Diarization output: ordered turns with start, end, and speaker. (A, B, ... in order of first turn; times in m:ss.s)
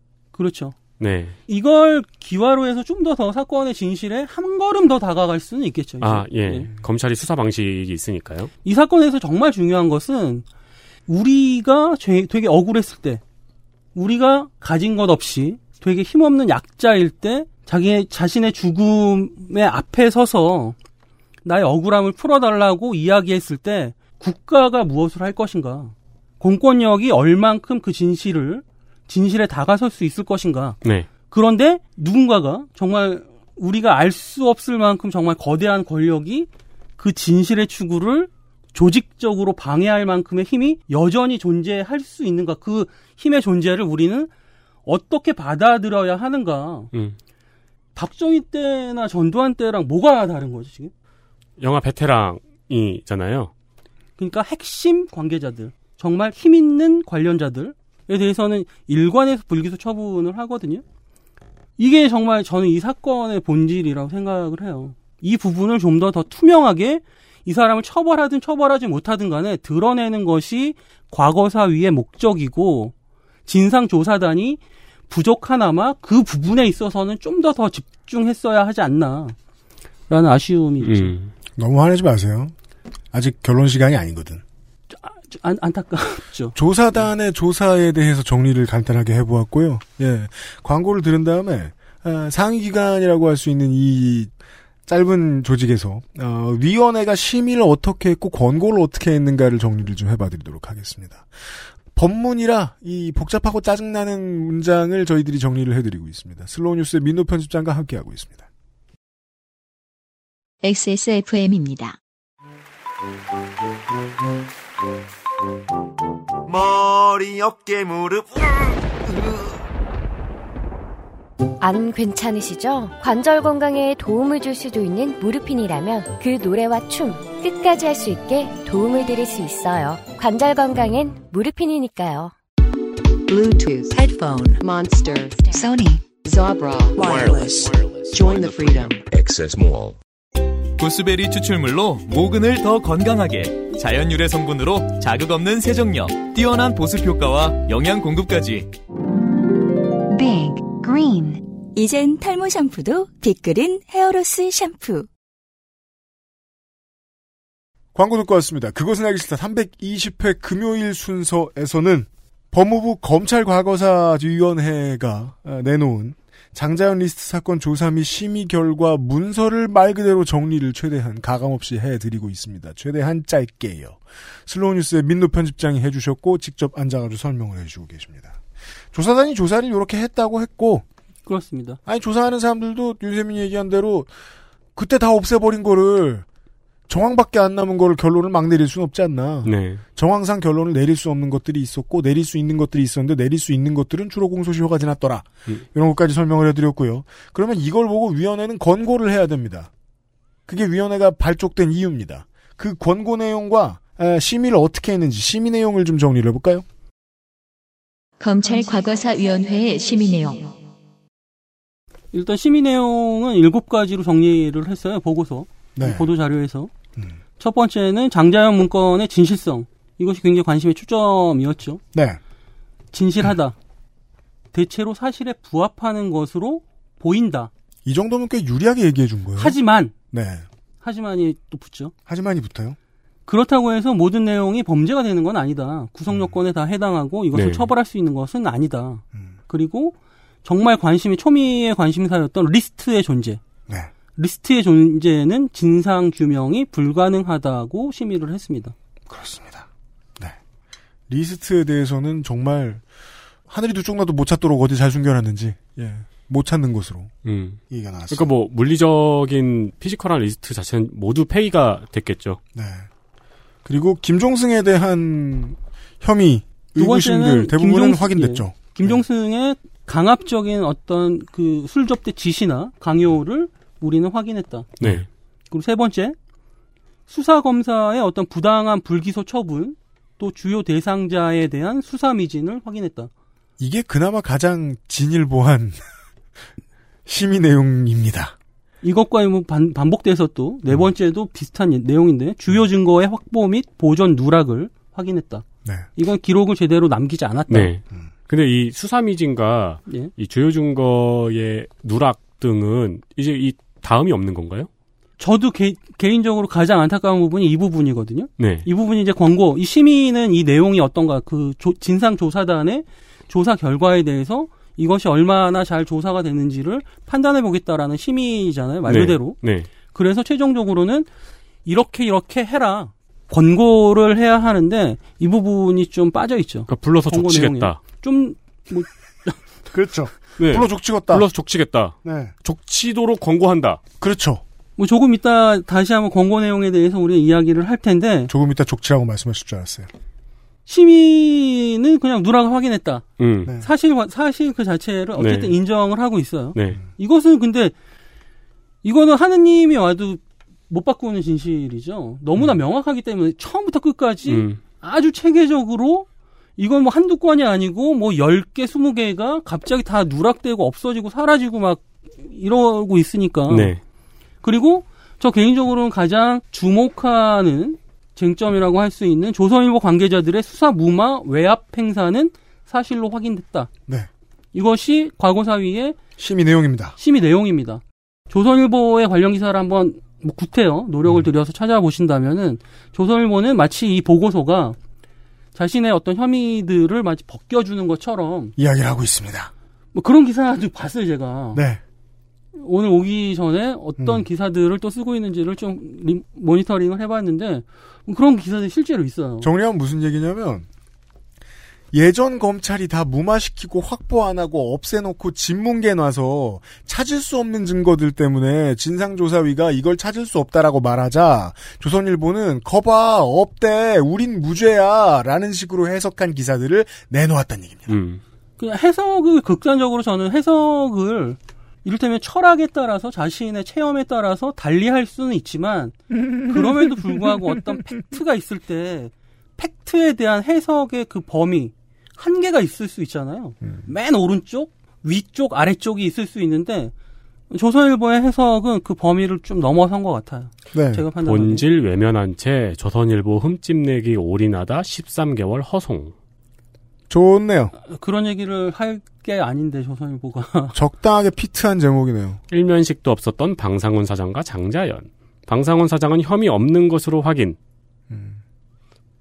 0:00.3-0:00.8 A
0:01.0-0:01.4 B
0:01.5-0:06.7 A
0:06.0-0:08.5 B
0:08.6-0:10.4 A
0:11.1-0:13.2 A
0:14.0-0:20.8 A
0:21.4-0:30.8 A
0:31.3-0:44.3 A
0:44.9-0:46.9 A
0:48.0-0:50.9 A
0:51.6-0:53.5 B
0:54.2-1:00.8 A
1:01.8-1:12.9 A
1:13.5-1:19.4 A
1:20.1-1:21.1 A
1:20.8-1:21.3 B
1:21.6-1:22.5 C
1:23.1-1:24.4 C
1:24.9-1:26.6 A
1:26.6-1:34.3 C
1:34.9-1:41.3 C
1:41.9-1:48.5 C
1:50.6-1:52.0 D
1:56.5-1:59.5 E
2:01.6-2:12.3 F
2:13.3-2:15.6 G
2:15.6-2:16.0 D
2:16.2-2:19.0 G
2:17.0-2:20.0 H
2:20.8-2:28.7 I
2:31.7-2:35.1 J
2:38.0-2:58.4 C
2:58.9-3:00.8 C
3:01.3-3:01.8 A
3:01.9-3:04.1 C
3:04.8-3:06.3 C
3:06.9-3:19.7 C
3:09.4-3:09.8 B
3:20.5-3:26.6 C
3:28.2-3:30.5 D
3:32.1-3:36.7 A
3:35.8-3:36.1 C
3:37.4-3:41.8 A
3:41.9-3:42.2 C
3:42.9-3:43.6 A
3:44.5-3:47.5 A
3:47.8-3:49.6 C
3:49.4-3:49.9 A
3:50.1-3:50.5 C
3:50.8-3:51.9 A
3:52.1-3:52.8 C
3:53.3-4:03.4 A
3:57.3-3:57.7 B
4:04.2-4:08.7 A
4:09.1-4:09.7 C
4:11.1-4:12.8 C
4:13.5-4:17.1 C
4:17.2-4:22.4 B
4:17.7-4:18.3 C
4:22.5-4:22.9 C
4:23.6-4:29.0 C
4:26.8-4:34.7 A
4:34.8-4:35.1 B
4:35.5-4:36.2 A
4:37.1-4:43.1 A
4:43.6-4:45.8 C
4:47.1-4:48.4 C
4:48.8-4:55.4 A
4:56.0-4:57.7 A
4:57.5-5:04.7 B
5:05.2-5:19.4 A
5:08.4-5:08.7 B
5:18.9-5:19.7 B
5:19.9-5:21.1 A
5:21.6-5:29.4 A
5:26.7-5:27.8 B
5:29.7-5:31.3 C
5:30.4-5:33.8 B
5:32.0-5:32.3 C
5:34.0-5:34.4 C
5:34.8-5:38.3 A
5:38.3-5:39.9 C
5:40.7-5:43.0 A
5:43.2-5:43.5 B
5:43.4-5:43.7 C
5:43.6-5:47.7 A
5:45.2-5:45.6 B
5:48.8-6:03.7 A
5:54.3-5:54.6 B
6:03.5-6:03.8 B
6:04.4-6:13.7 A
6:14.5-6:16.0 A
6:16.2-6:17.0 C
6:17.0-6:24.8 A
6:25.6-6:28.6 A
6:28.6-6:29.5 C
6:29.9-6:31.6 A
6:31.5-6:31.8 C
6:32.6-6:39.5 A
6:34.0-6:34.2 C
6:39.4-6:40.7 C
6:41.9-6:58.0 C
6:57.9-6:58.2 B
6:58.6-7:16.9 A
7:17.5-7:21.6 A
7:20.7-7:21.1 C
7:21.2-7:26.1 B
7:27.1-7:27.7 C
7:27.8-7:30.8 A
7:30.7-7:32.4 C
7:32.5-7:37.6 B
7:38.1-7:38.4 C